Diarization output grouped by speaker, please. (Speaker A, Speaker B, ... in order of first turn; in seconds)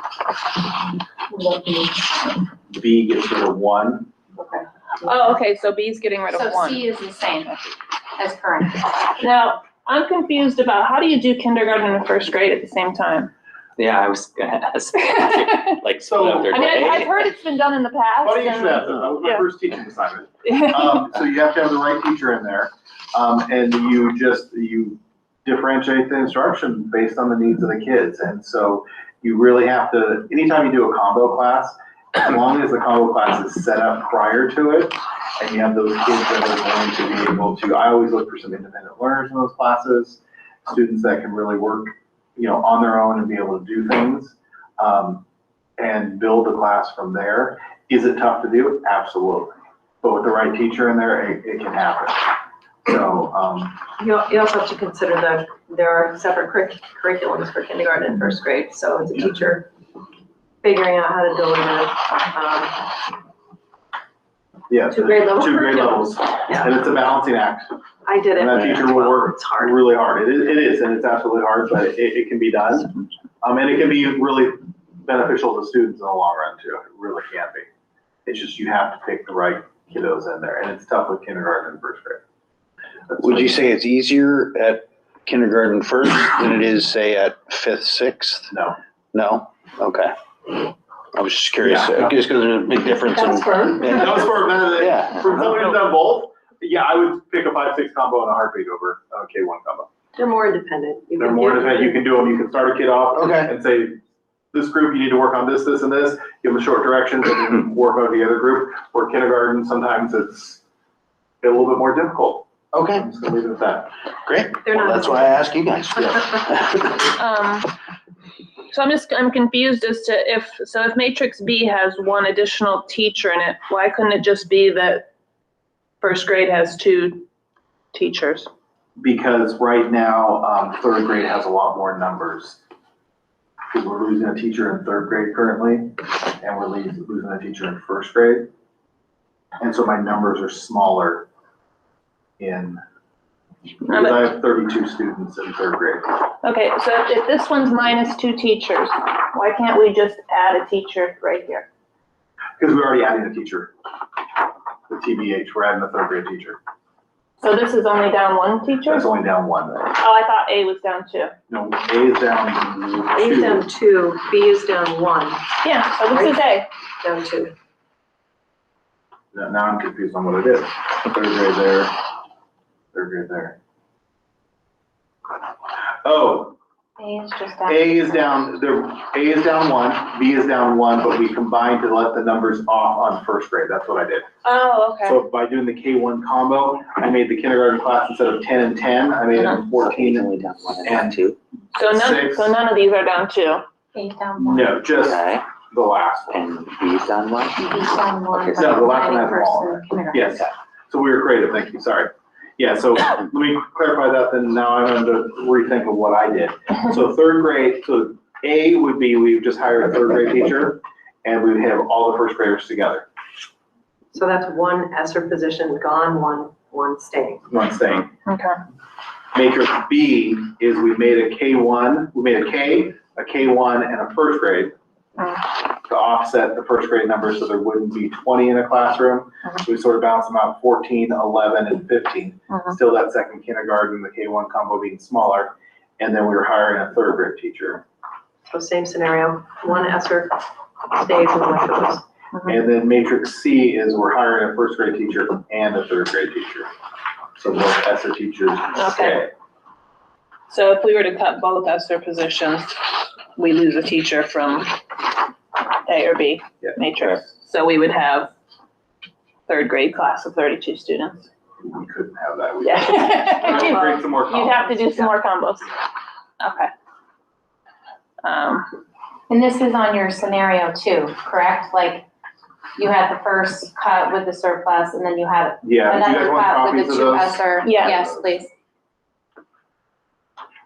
Speaker A: 1.3-2.1, 6.3-9.0, 177.0-178.4, 193.9-194.8, 197.5-200.5, 269.3-272.1, 272.8-278.5
Speaker B: 2.7-4.1, 16.0-16.9, 18.2-45.2, 45.8-52.3, 52.8-53.8, 64.7-67.7, 68.3-72.9, 73.4-77.7, 78.2-82.2, 83.1-83.5, 88.5-88.8, 91.6-92.1, 93.8-99.9, 101.2-104.0, 104.5-110.6, 111.4-113.9, 129.0-132.6, 133.7-138.5, 139.6-141.3, 142.4-142.8, 143.8-146.0, 152.6-153.7, 154.9-156.6, 158.8-159.9, 161.5-163.7, 169.3-171.9, 172.9-173.6, 176.0-176.6, 177.6-184.3, 185.0-191.2, 191.9-192.5, 194.4-196.4, 198.5-213.0, 217.5-218.1, 219.3-224.7, 225.8-237.8, 242.4-246.7, 247.3-249.3, 261.6-265.1, 275.6-278.3
Speaker C: 5.0-6.9, 9.2-13.3, 15.1-15.7, 16.4-19.4, 20.4-21.0, 117.2-117.7, 118.7-125.1, 126.0-127.3, 127.9-128.5, 143.9-144.3, 146.4-151.7, 157.4-159.1, 160.0-161.3, 165.6-166.7, 184.4-185.2, 191.7-193.6, 218.2-218.6, 248.7-249.2, 250.5-252.8, 253.3-254.8, 255.8-258.3, 259.5-261.3, 262.6-265.7, 266.4-266.7, 268.2-268.6, 277.6-278.0
Speaker D: 13.8-17.1, 189.8-191.3, 195.0-195.4, 196.3-197.5
Speaker E: 54.0-59.7, 60.6-62.9, 64.9-65.9, 66.5-66.8, 68.0-69.8, 100.2-102.0, 114.6-115.4, 163.1-165.4, 166.1-166.3, 167.0-167.5, 214.1-217.4, 238.5-240.4, 240.9-242.0
Speaker F: 83.2-88.5, 89.1-90.1, 91.1-95.7, 103.1-103.5, 112.7-113.1, 114.2-117.0